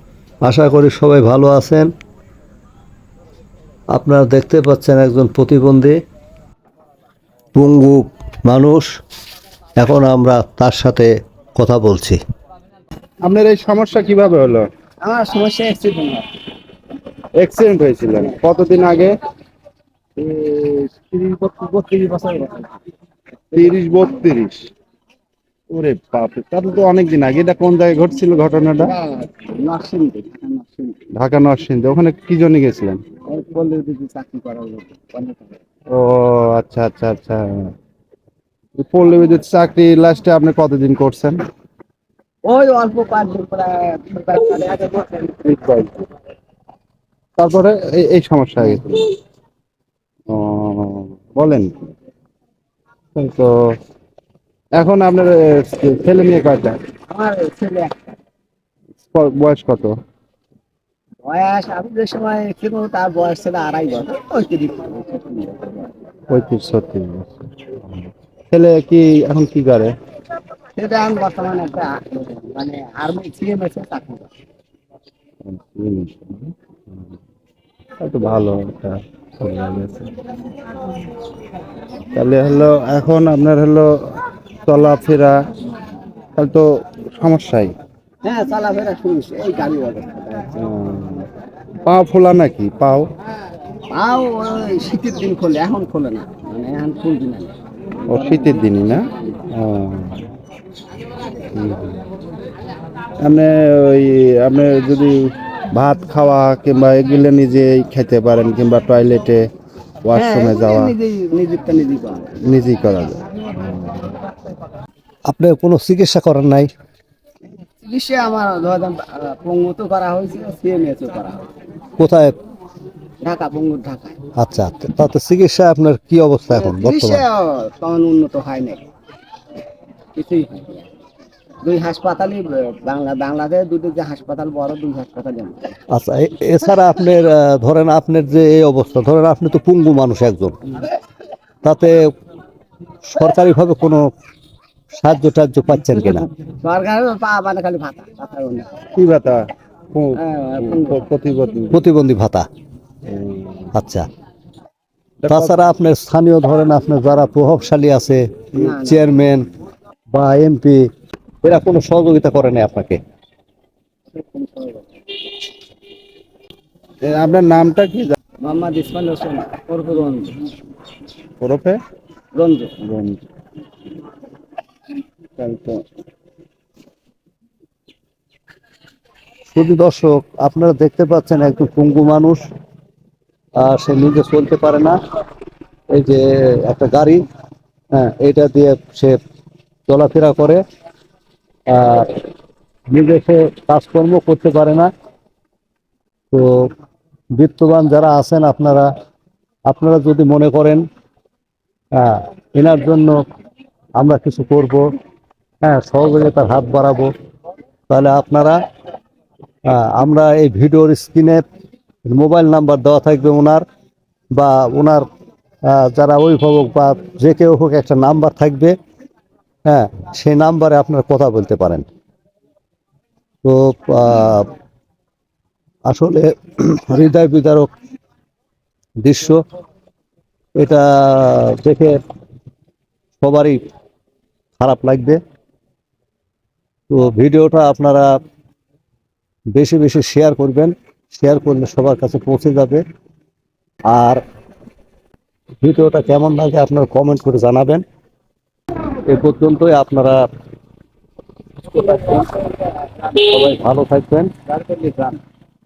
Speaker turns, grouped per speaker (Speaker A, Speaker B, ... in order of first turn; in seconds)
Speaker A: 0.4-1.9, 3.9-6.0, 7.5-8.9, 9.8-12.2, 115.3-116.7, 122.0-122.3, 124.4-127.2, 135.9-140.6, 141.6-142.0, 143.1-144.1, 144.9-146.3, 151.7-152.5, 153.7-154.1, 155.3-159.4, 160.1-160.8, 161.4-163.0, 179.5-182.4, 183.6-185.0, 185.9-187.2, 187.9-189.2, 189.9-190.6, 191.7-192.2, 192.9-194.9, 196.3-196.7, 197.4-198.9, 199.7-200.8, 201.9-203.2, 204.0-204.8, 205.6-207.1, 207.9-208.6, 209.7-211.4, 212.1-213.6, 214.3-215.1, 215.7-218.7, 219.7-221.8, 223.4-224.5, 225.9-227.7, 229.0-229.4, 230.6-232.0, 233.2-233.6, 234.6-235.2, 236.9-238.1, 239.5-242.8, 243.9-244.2, 245.6-247.8, 249.1-250.2, 251.7-252.3, 253.0-254.3
Speaker B: 13.2-14.7, 17.4-19.1, 23.5-24.6, 25.7-28.9, 31.1-33.0, 35.9-37.7, 38.8-41.4, 45.4-46.0, 47.4-49.1, 50.3-51.7, 53.1-53.6, 54.8-56.8, 59.1-59.9, 66.3-69.9, 75.5-77.1, 78.0-80.1, 82.1-83.9, 84.7-85.4, 86.3-87.7, 90.5-91.3, 91.8-93.1, 98.1-100.2, 101.5-102.0, 103.2-105.2, 105.7-109.4, 110.0-110.9, 112.4-114.0, 148.9-151.9, 153.1-153.7, 155.2-155.6, 167.0-168.1, 171.4-171.8, 172.8-173.2, 175.4-175.8
Speaker C: 15.0-16.3, 20.2-22.7, 28.8-31.0, 33.3-35.6, 42.4-45.4, 57.1-58.1, 61.2-65.9, 70.8-74.3, 88.2-90.5, 93.9-97.5, 98.0-99.4, 110.1-112.3, 117.8-121.5, 123.2-124.2, 126.5-128.8, 130.1-130.9, 131.6-135.8, 146.1-148.9, 150.2-151.1, 158.5-159.2, 164.1-164.8, 168.4-170.4, 172.3-172.8, 254.5-255.2